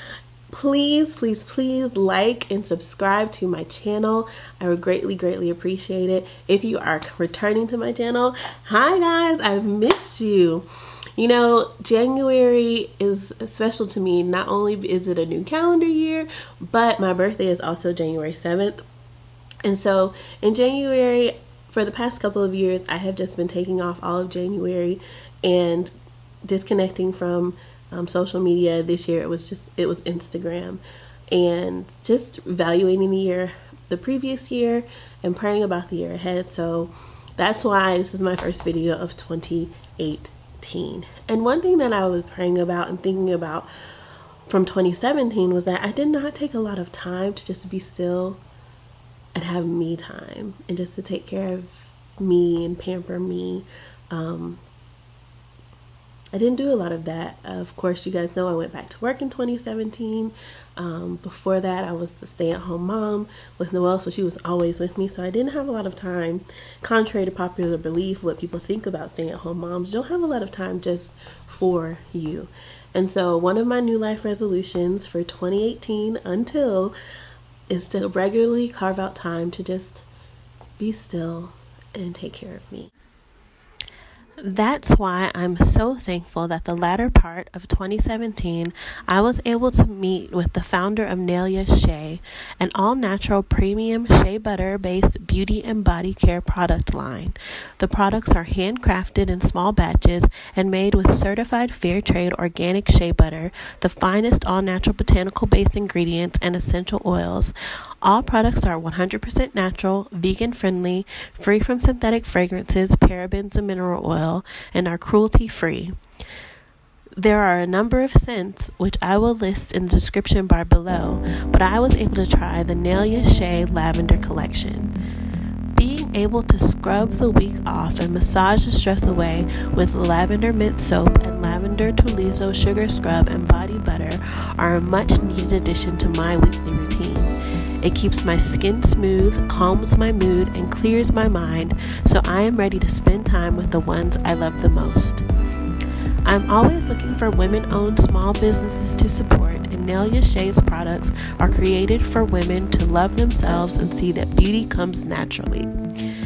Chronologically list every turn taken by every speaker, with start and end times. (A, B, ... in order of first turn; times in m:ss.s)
0:00.5-0:10.6 A
0:11.2-0:18.8 A
0:19.6-0:25.9 A
0:26.4-0:43.7 A
0:44.5-0:48.4 A
0:49.4-0:54.6 A
0:56.3-1:16.9 A
1:17.7-1:20.0 A
1:20.8-1:22.9 A
1:24.4-1:56.0 A
1:57.2-2:04.9 A
2:05.7-2:25.2 A
2:26.2-2:35.7 A